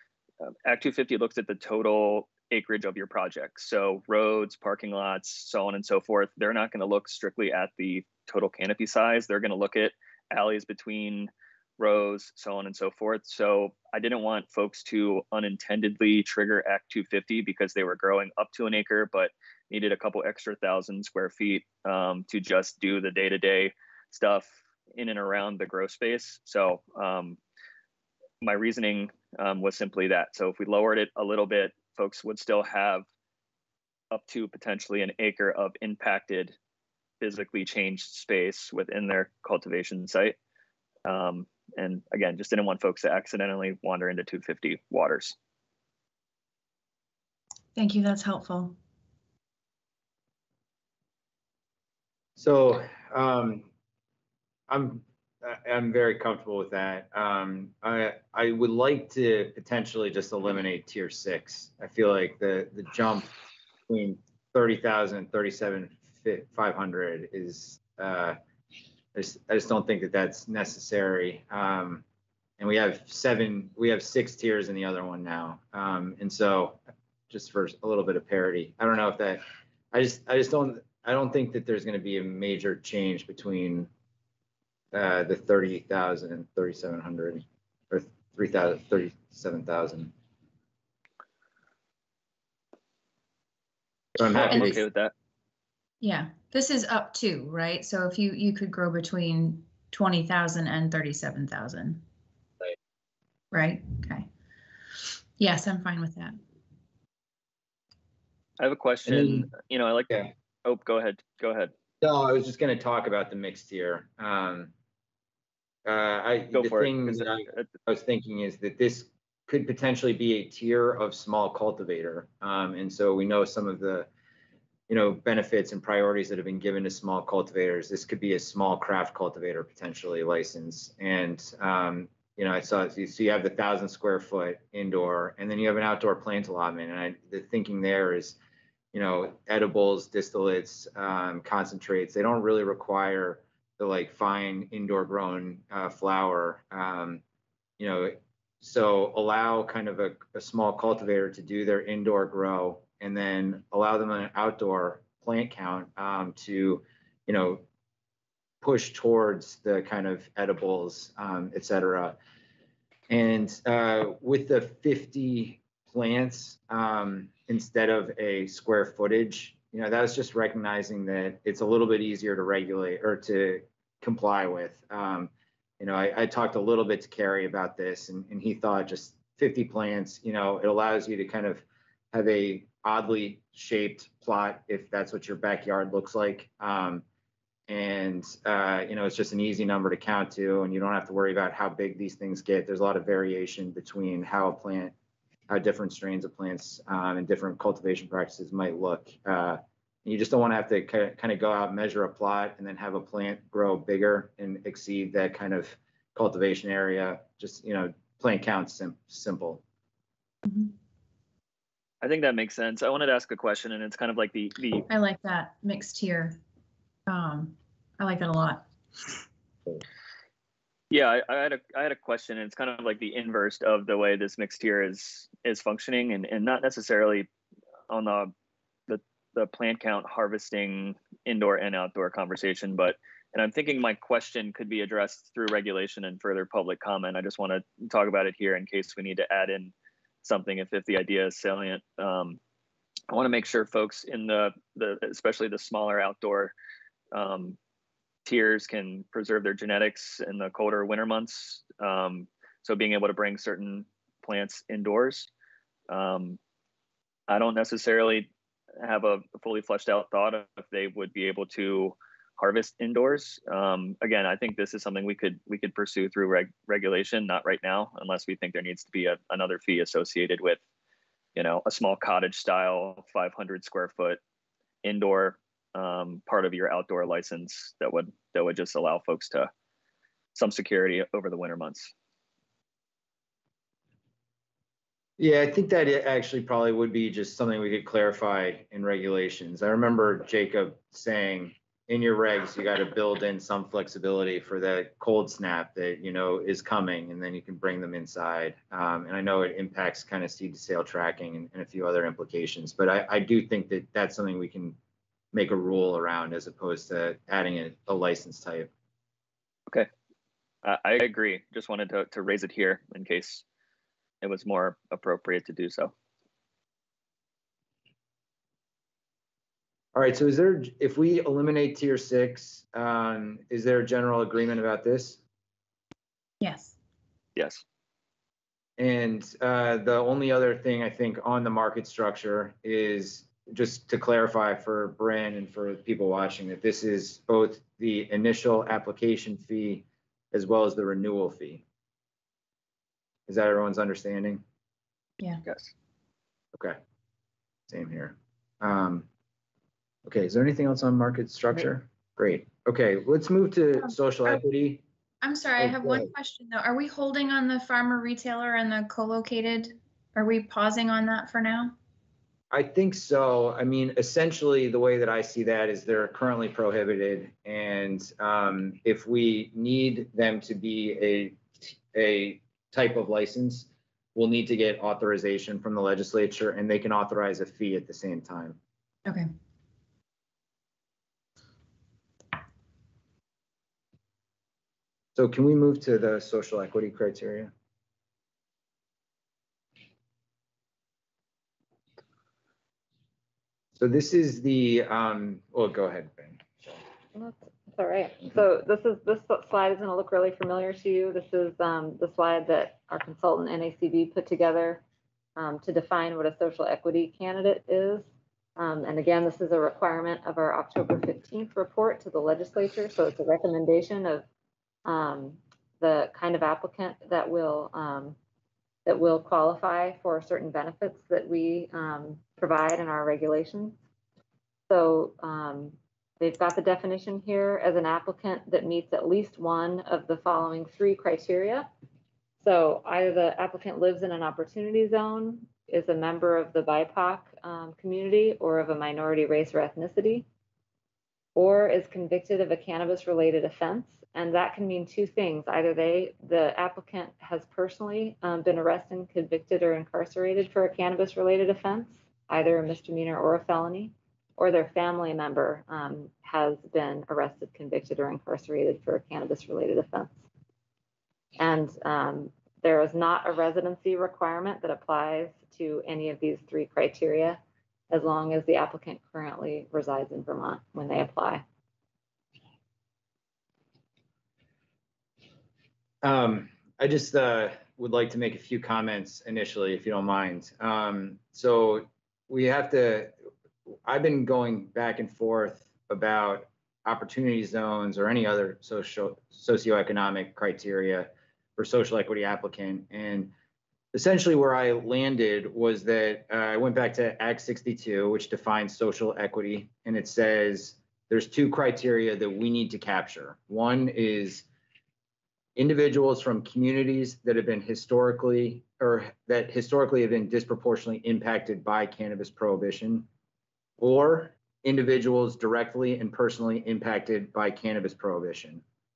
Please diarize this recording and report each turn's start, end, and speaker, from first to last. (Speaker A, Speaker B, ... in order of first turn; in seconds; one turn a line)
Speaker A: 0.7-27.4
Speaker A: 28.4-33.0
Speaker A: 34.1-36.6
Speaker A: 37.2-40.4
Speaker A: 41.1-45.4
Speaker B: 47.8-48.8
Speaker C: 52.4-53.7
Speaker C: 54.7-63.3
Speaker C: 63.9-68.4
Speaker C: 69.1-72.0
Speaker C: 72.6-83.9
Speaker C: 84.9-90.1
Speaker C: 94.2-94.8
Speaker A: 94.3-95.1
Speaker B: 96.0-102.0
Speaker B: 103.5-104.3
Speaker B: 105.4-106.4
Speaker A: 108.6-111.7
Speaker C: 109.1-109.5
Speaker C: 112.0-114.7
Speaker C: 115.8-124.1
Speaker A: 116.5-117.7
Speaker C: 124.9-138.4
Speaker C: 138.9-147.2
Speaker C: 147.8-157.6
Speaker C: 158.6-162.2
Speaker C: 163.1-187.0
Speaker C: 187.7-194.9
Speaker C: 195.5-209.6
Speaker B: 210.5-210.7
Speaker A: 212.0-214.9
Speaker B: 214.9-216.4
Speaker B: 217.1-219.2
Speaker A: 220.9-227.3
Speaker A: 227.9-228.3
Speaker A: 228.9-239.7
Speaker A: 240.2-242.4
Speaker A: 243.1-246.5
Speaker A: 247.1-247.6
Speaker A: 248.2-255.3
Speaker A: 255.9-256.4
Speaker A: 257.3-270.6
Speaker A: 271.4-274.2
Speaker A: 274.8-279.5
Speaker A: 280.4-281.9
Speaker C: 285.2-304.8
Speaker C: 305.3-308.7
Speaker A: 310.6-313.4
Speaker A: 314.2-315.9
Speaker C: 319.9-325.2
Speaker B: 326.4-326.8
Speaker A: 327.4-327.6
Speaker C: 328.8-341.6
Speaker C: 343.3-344.4
Speaker A: 345.4-345.7
Speaker C: 347.7-349.1
Speaker C: 350.1-354.8
Speaker B: 355.2-361.7
Speaker C: 355.6-356.1
Speaker C: 362.5-378.6
Speaker C: 385.2-387.5
Speaker C: 393.8-396.8
Speaker D: 397.1-404.8
Speaker D: 405.4-414.2
Speaker D: 414.9-418.2
Speaker D: 418.9-423.8
Speaker D: 424.7-431.7
Speaker D: 432.4-440.3
Speaker D: 441.4-460.2
Speaker D: 461.4-471.4
Speaker C: 476.0-483.1
Speaker C: 483.9-493.3
Speaker C: 493.9-504.5
Speaker C: 505.6-513.1
Speaker C: 513.8-518.6